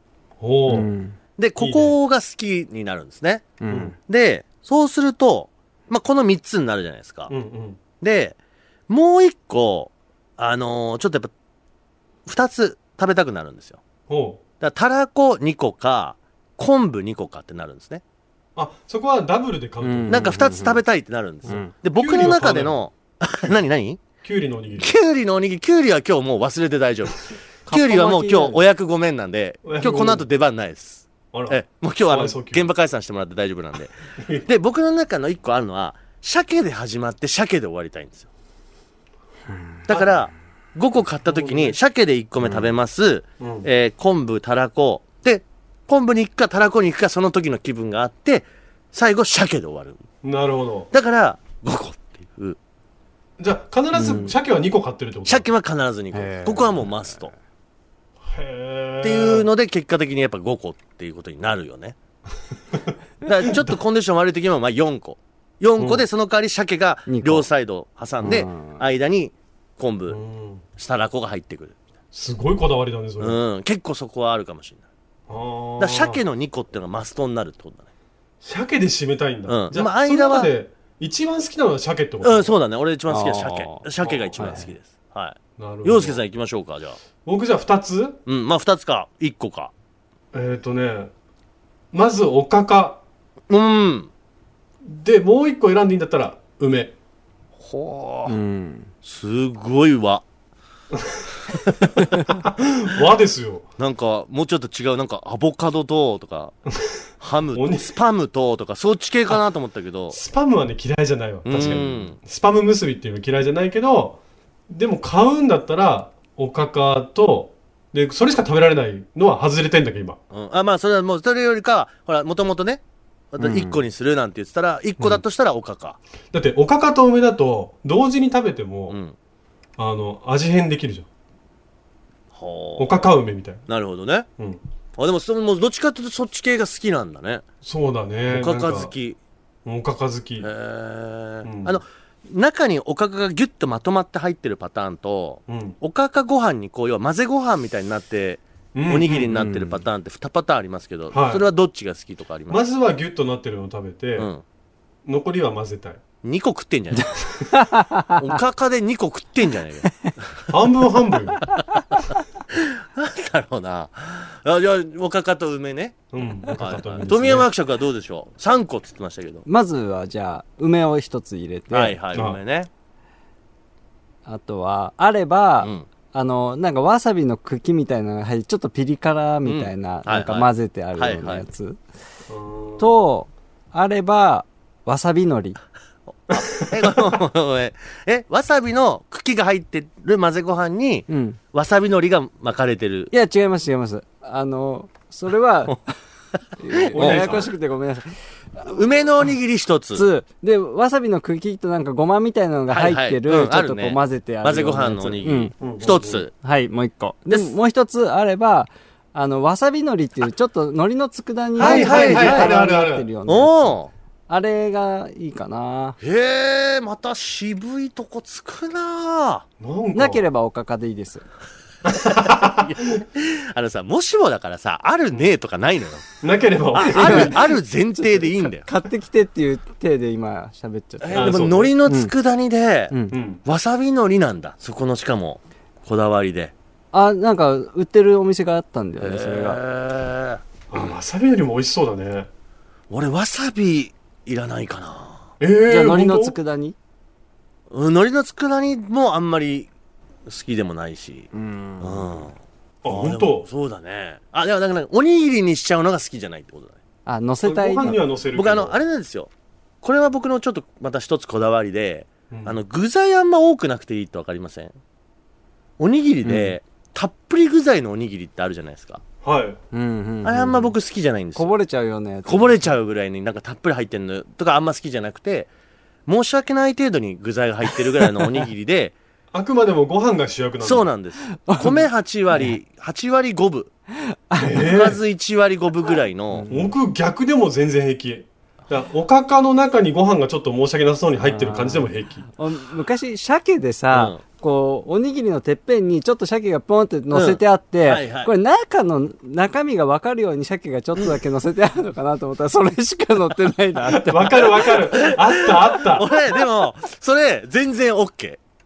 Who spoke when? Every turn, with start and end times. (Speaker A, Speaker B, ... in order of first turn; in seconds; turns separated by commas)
Speaker A: 0.4-0.9, Speaker B: 0.7-1.2, Speaker C: 1.4-3.5, Speaker A: 1.6-1.9, Speaker B: 3.6-3.9, Speaker A: 3.7-3.9, Speaker C: 4.1-7.3, Speaker A: 7.3-7.8, Speaker C: 8.0-8.3, Speaker C: 8.9-11.3, Speaker C: 12.2-13.8, Speaker A: 14.1-14.4, Speaker C: 14.6-18.0, Speaker A: 18.6-20.3, Speaker B: 19.8-20.8, Speaker C: 20.1-24.0, Speaker B: 21.4-21.7, Speaker A: 21.9-22.8, Speaker A: 24.2-24.9, Speaker C: 24.8-33.9, Speaker B: 27.7-28.6, Speaker A: 29.6-30.3, Speaker A: 31.3-32.7, Speaker A: 34.2-34.5, Speaker C: 34.4-38.3, Speaker C: 39.9-50.0, Speaker A: 39.9-40.2, Speaker A: 41.3-41.8, Speaker A: 43.4-43.7, Speaker A: 50.2-50.9, Speaker C: 50.9-52.6, Speaker A: 53.4-55.5, Speaker B: 53.9-54.3, Speaker C: 55.2-57.3, Speaker B: 56.1-57.1, Speaker A: 58.2-59.5, Speaker C: 59.0-61.9, Speaker C: 63.2-70.2, Speaker A: 63.4-63.8, Speaker A: 65.8-66.0, Speaker B: 67.1-67.5, Speaker B: 68.2-68.8, Speaker A: 70.1-70.6, Speaker C: 70.8-71.8, Speaker A: 72.1-73.4, Speaker C: 73.2-74.8, Speaker A: 75.3-76.2, Speaker C: 75.8-77.9, Speaker A: 78.4-82.5, Speaker C: 79.5-80.5, Speaker C: 82.2-87.0, Speaker B: 83.1-84.7, Speaker A: 84.0-84.3, Speaker A: 85.6-86.2, Speaker A: 87.2-88.2, Speaker C: 88.2-89.7, Speaker A: 90.3-91.1, Speaker A: 91.9-93.0, Speaker C: 93.5-94.1, Speaker A: 94.8-96.9, Speaker C: 97.6-98.3, Speaker B: 98.3-98.9, Speaker C: 99.0-100.2, Speaker A: 100.9-101.2, Speaker C: 101.5-102.0, Speaker A: 102.2-103.6, Speaker C: 103.8-106.5, Speaker C: 107.2-110.2, Speaker A: 107.5-107.9, Speaker A: 110.1-120.2, Speaker C: 111.4-112.2, Speaker C: 120.3-122.8, Speaker C: 123.3-126.0, Speaker B: 123.4-123.8, Speaker A: 126.3-129.0, Speaker C: 128.9-129.1, Speaker A: 129.8-131.1, Speaker C: 132.3-133.0, Speaker A: 132.8-133.6, Speaker C: 133.7-134.3, Speaker C: 135.0-137.4, Speaker A: 137.6-138.9, Speaker C: 138.3-139.2, Speaker A: 139.6-140.5, Speaker C: 140.4-152.6, Speaker A: 141.4-141.8, Speaker A: 145.5-145.8, Speaker A: 148.7-149.5, Speaker B: 149.3-149.8, Speaker A: 151.1-151.4, Speaker A: 152.5-154.3, Speaker C: 154.2-154.4, Speaker A: 155.0-156.0, Speaker C: 156.2-157.2, Speaker B: 156.9-158.2, Speaker C: 158.2-160.5, Speaker A: 160.5-161.4, Speaker C: 162.5-169.4, Speaker A: 166.1-167.5, Speaker B: 169.4-171.9, Speaker C: 171.7-172.7, Speaker A: 172.1-172.4, Speaker B: 174.2-181.8, Speaker C: 179.4-181.4, Speaker A: 182.3-182.9, Speaker B: 182.8-185.6, Speaker C: 186.1-193.1, Speaker A: 186.3-187.2, Speaker B: 191.1-191.4, Speaker B: 193.1-195.8, Speaker B: 196.6-198.8, Speaker A: 196.9-197.5, Speaker C: 196.9-197.4, Speaker C: 198.6-200.1, Speaker B: 199.9-205.5, Speaker C: 202.7-206.3, Speaker A: 205.6-206.2, Speaker B: 206.4-213.7, Speaker C: 211.6-212.6, Speaker A: 211.6-213.1, Speaker C: 213.2-213.9, Speaker B: 214.3-216.0, Speaker C: 216.0-219.4, Speaker A: 219.6-220.2, Speaker B: 219.9-221.2, Speaker A: 221.8-223.0, Speaker C: 222.4-226.1, Speaker A: 226.2-227.5, Speaker C: 226.7-228.7, Speaker B: 226.8-232.1, Speaker C: 231.0-236.5, Speaker A: 231.1-231.8, Speaker B: 232.9-233.2, Speaker A: 233.1-233.4, Speaker B: 236.9-239.6, Speaker C: 239.0-240.4, Speaker A: 240.7-242.3, Speaker C: 242.9-245.3, Speaker A: 245.4-246.3, Speaker B: 245.7-246.7, Speaker C: 247.7-249.7, Speaker C: 250.3-251.3, Speaker B: 251.3-252.2, Speaker C: 251.8-252.3, Speaker A: 252.8-253.5, Speaker C: 252.8-256.8, Speaker B: 257.1-258.0, Speaker A: 257.4-258.8, Speaker C: 258.3-259.3, Speaker C: 259.8-264.7, Speaker A: 262.3-262.6, Speaker C: 265.8-269.0, Speaker B: 266.2-266.5, Speaker A: 269.2-269.6, Speaker B: 269.7-270.7, Speaker C: 270.2-271.5, Speaker B: 271.4-272.7, Speaker C: 272.2-275.5, Speaker C: 276.1-278.9, Speaker A: 279.3-280.9, Speaker C: 280.6-283.7, Speaker B: 281.3-281.8, Speaker B: 284.0-284.7, Speaker A: 284.4-285.0, Speaker C: 284.5-286.5, Speaker B: 286.3-286.7, Speaker A: 286.5-292.2, Speaker B: 291.2-304.5, Speaker C: 293.9-294.2, Speaker C: 297.1-298.3, Speaker A: 303.9-306.1, Speaker C: 304.9-308.4